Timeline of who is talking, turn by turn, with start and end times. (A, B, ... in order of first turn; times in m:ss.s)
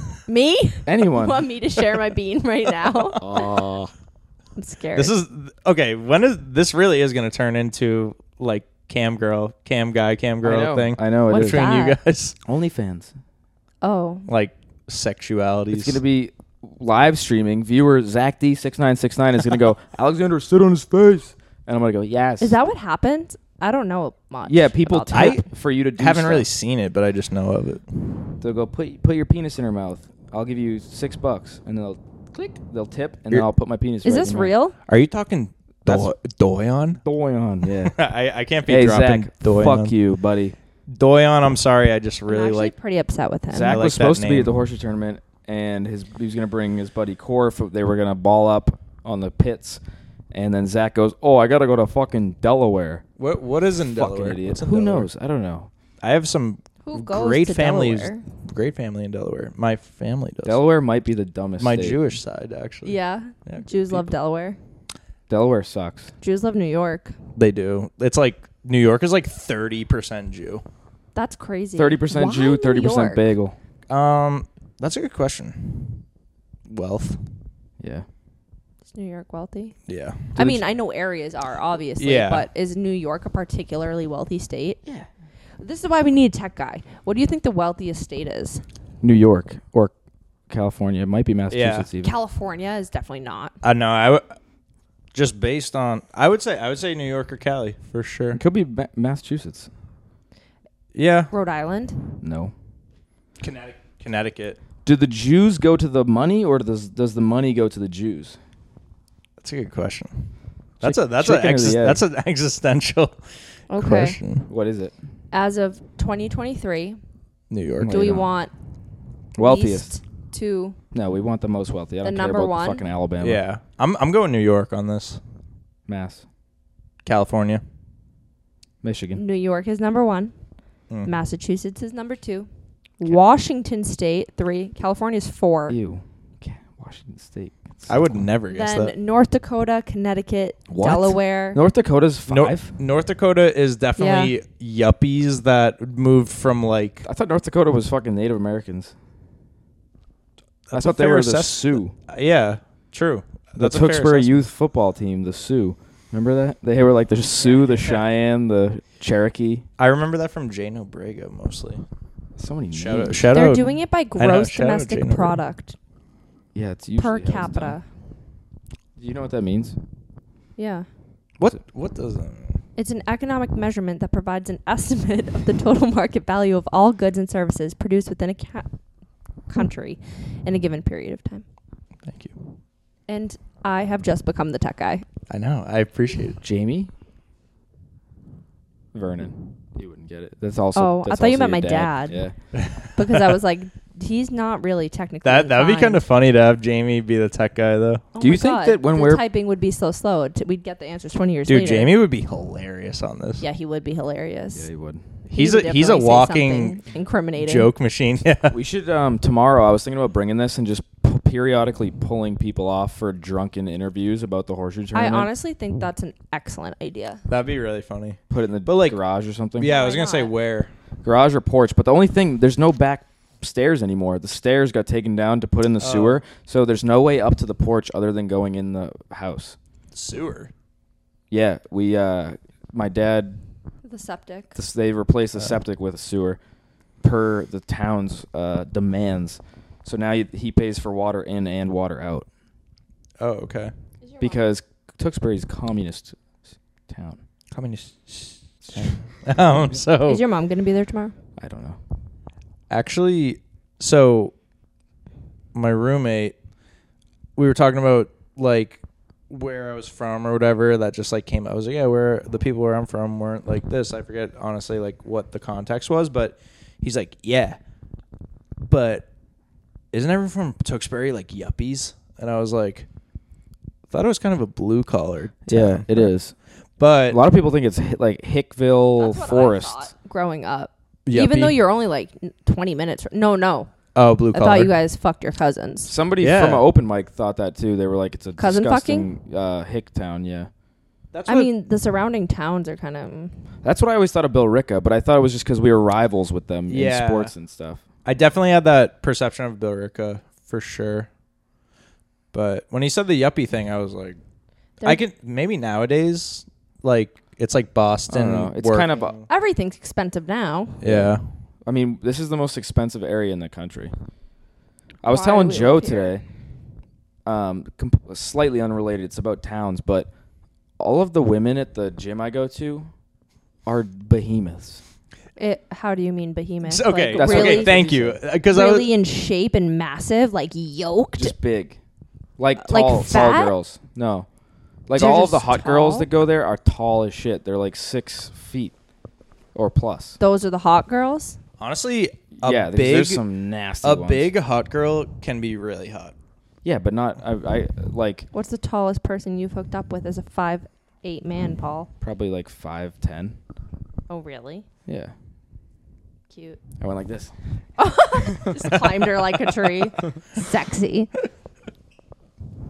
0:00.3-0:03.5 A
0:00.9-0:01.4 B
0:03.2-0:03.6 C
0:03.3-0:03.8 B
0:04.6-0:05.1 A
0:05.0-0:12.4 C
0:10.4-0:11.7 B
0:11.3-0:12.0 A
0:12.5-0:13.1 B
0:13.8-0:14.3 A
0:14.3-0:16.0 C
0:15.7-0:22.6 B
0:22.4-0:25.4 A
0:24.5-0:26.5 B
0:25.1-0:25.4 C
0:26.0-0:28.2 C
0:28.4-0:34.5 B
0:34.0-0:34.8 A
0:34.9-0:37.0 C
0:37.0-0:38.0 B
0:37.8-0:40.0 C
0:38.7-0:40.6 B
0:40.9-0:42.7 C
0:42.3-0:43.8 A
0:43.5-0:49.8 B
0:43.7-0:44.6 C
0:50.3-0:53.0 B
0:53.2-0:55.1 C
0:53.9-0:55.7 B
0:56.0-1:00.6 C
0:56.8-0:58.2 A
1:00.4-1:02.0 B
1:01.6-1:04.1 C
1:02.8-1:04.6 A
1:05.3-1:06.1 B
1:06.2-1:07.2 A
1:07.4-1:10.6 C
1:11.2-1:13.3 A
1:11.8-1:13.6 B
1:13.9-1:16.0 C
1:16.7-1:17.2 C
1:17.8-1:18.0 B
1:18.9-1:19.8 A
1:19.9-1:20.3 C
1:20.3-1:24.8 A
1:20.4-1:20.6 B
1:22.0-1:22.5 C
1:25.6-1:28.6 A
1:29.0-1:29.9 B
1:30.5-1:32.1 B
1:31.5-1:31.9 C
1:32.0-1:33.6 A
1:33.6-1:34.3 C
1:35.1-1:38.4 C
1:38.3-1:39.7 B
1:40.9-1:41.3 C
1:41.3-1:42.0 A
1:42.2-1:42.5 B
1:43.4-1:44.6 C
1:44.8-1:48.4 B
1:49.4-1:50.3 C
1:50.8-1:53.2 C
1:50.8-1:52.0 B
1:53.7-1:54.2 A
1:53.8-1:54.5 C
1:54.5-1:54.9 B
1:55.3-1:57.0 A
1:57.5-1:58.0 C
1:57.8-1:58.3 B
1:57.9-1:58.5 A
1:59.4-2:00.0 B
1:59.4-2:00.8 A
2:00.9-2:03.4 B
2:02.0-2:02.8 A
2:03.2-2:05.2 C
2:05.9-2:06.2 B
2:07.0-2:07.6 C
2:08.8-2:09.2 B
2:09.2-2:10.3 A
2:11.0-2:12.5 A
2:13.0-2:15.8 A
2:15.7-2:18.2 B
2:17.9-2:18.9 C
2:18.5-2:21.6 A
2:20.7-2:22.7 B
2:22.3-2:27.0 C
2:24.0-2:24.3 A
2:27.0-2:28.9 B
2:30.7-2:34.4 C
2:30.7-2:32.0 B
2:33.6-2:39.6 B
2:37.4-2:38.0 C
2:39.8-2:41.8 C
2:42.4-2:43.4 B
2:42.7-2:45.4 C
2:43.3-2:45.8 A
2:46.5-2:47.8 B
2:47.0-2:47.8 A
2:49.0-2:49.8 B
2:50.6-2:50.9 A
2:51.4-2:52.6 C
2:52.8-2:58.7 A
2:59.5-3:01.4 A
3:02.0-3:02.3 C
3:03.1-3:05.0 A
3:05.3-3:06.4 C
3:06.4-3:06.9 B
3:08.9-3:12.4 B
3:10.8-3:12.2 A
3:12.6-3:13.3 C
3:13.0-3:16.0 A
3:15.2-3:18.0 C
3:18.2-3:21.9 A
3:18.2-3:19.2 B
3:21.5-3:23.4 C
3:23.4-3:24.7 A
3:24.5-3:25.1 B
3:25.3-3:26.8 C
3:25.3-3:27.7 A
3:27.4-3:28.6 C
3:28.5-3:35.3 B
3:34.9-3:37.2 A
3:37.3-3:39.0 C
3:38.3-3:39.8 B
3:39.6-3:40.7 C
3:39.6-3:40.3 A
3:41.0-3:49.6 B
3:45.8-3:46.2 C
3:49.9-3:50.5 C
3:51.3-3:53.4 B
3:53.8-3:54.6 A
3:54.6-3:56.4 B
3:57.0-4:02.3 B
4:03.2-4:03.7 C
4:04.0-4:04.4 A
4:04.2-4:06.2 B
4:06.9-4:07.2 B
4:07.5-4:10.2 C
4:10.1-4:11.1 A
4:11.4-4:11.8 B
4:12.7-4:14.3 C
4:15.6-4:16.4 C
4:17.4-4:27.6 C
4:28.6-4:29.1 C
4:29.9-4:32.9 C
4:33.9-4:36.1 C
4:35.5-4:36.3 B
4:36.8-4:37.2 C
4:37.1-4:39.9 B
4:39.0-4:43.7 A
4:41.1-4:41.6 C
4:44.0-4:44.8 C
4:44.3-4:45.9 A
4:45.9-4:50.5 B
4:46.2-4:46.7 C
4:48.4-4:49.1 A
4:51.1-4:51.5 C
4:51.3-4:53.4 A
4:53.6-4:57.8 B
4:56.7-4:57.3 C
4:58.0-5:01.1 C
5:02.3-5:04.2 C
5:04.8-5:09.2 C
5:08.1-5:09.2 B
5:09.3-5:10.8 A
5:10.8-5:11.2 C
5:10.8-5:11.2 B
5:11.7-5:13.9 B
5:15.0-5:16.2 B
5:15.1-5:16.1 A
5:17.2-5:20.1 B
5:20.8-5:22.9 B
5:23.7-5:24.8 B
5:25.4-5:27.8 A
5:26.6-5:28.9 C
5:27.1-5:28.2 B
5:28.5-5:31.4 A
5:31.2-5:31.8 B
5:32.4-5:34.3 B
5:32.6-5:33.5 A
5:34.9-5:38.7 B
5:34.9-5:36.1 A
5:39.6-5:40.2 B
5:40.2-5:41.4 A
5:41.6-5:43.2 C
5:42.4-5:44.3 B
5:43.8-5:46.1 C
5:46.6-5:48.3 B
5:48.3-5:51.9 A
5:52.0-5:53.4 B
5:54.1-5:54.7 A
5:54.9-5:55.1 B
5:56.3-5:56.6 A
5:56.8-5:57.3 B
5:57.8-6:01.1 A
5:58.3-5:58.6 B